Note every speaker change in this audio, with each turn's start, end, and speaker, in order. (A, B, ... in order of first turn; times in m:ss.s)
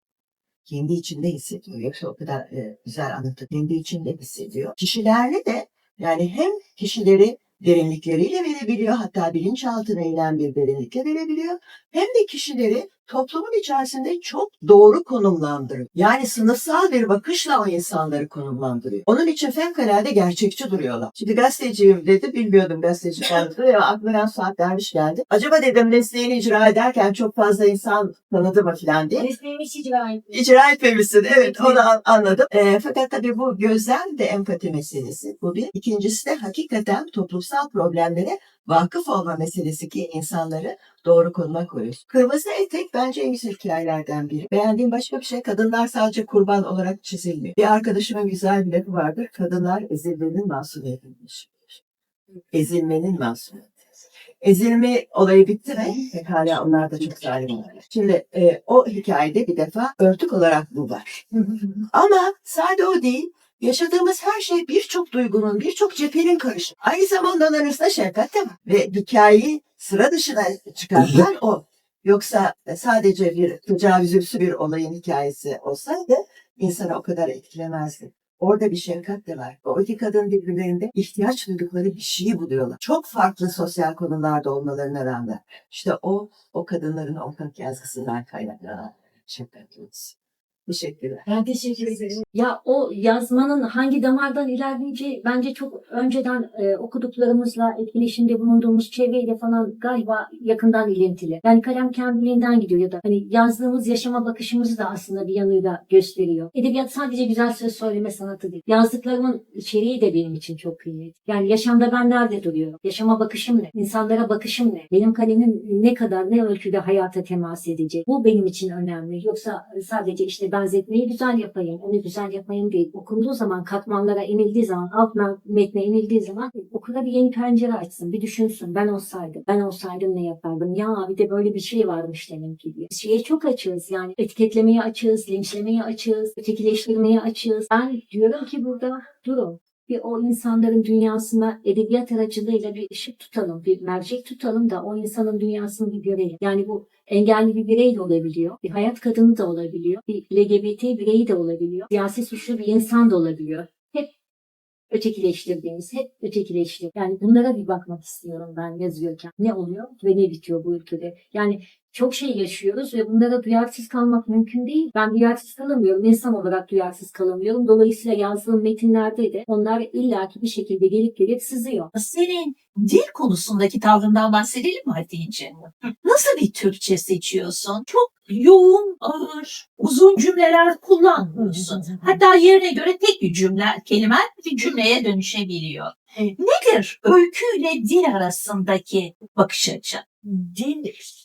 0:00.6-0:29.3 A
0:29.2-0:30.4 B
0:30.3-0:51.8 A
0:31.2-0:31.8 B
0:52.5-0:53.7 A
0:54.4-1:31.3 A
1:31.3-2:34.1 B
2:34.9-2:51.9 B
2:51.9-3:10.1 C
3:01.5-3:02.2 B
3:10.3-3:11.0 B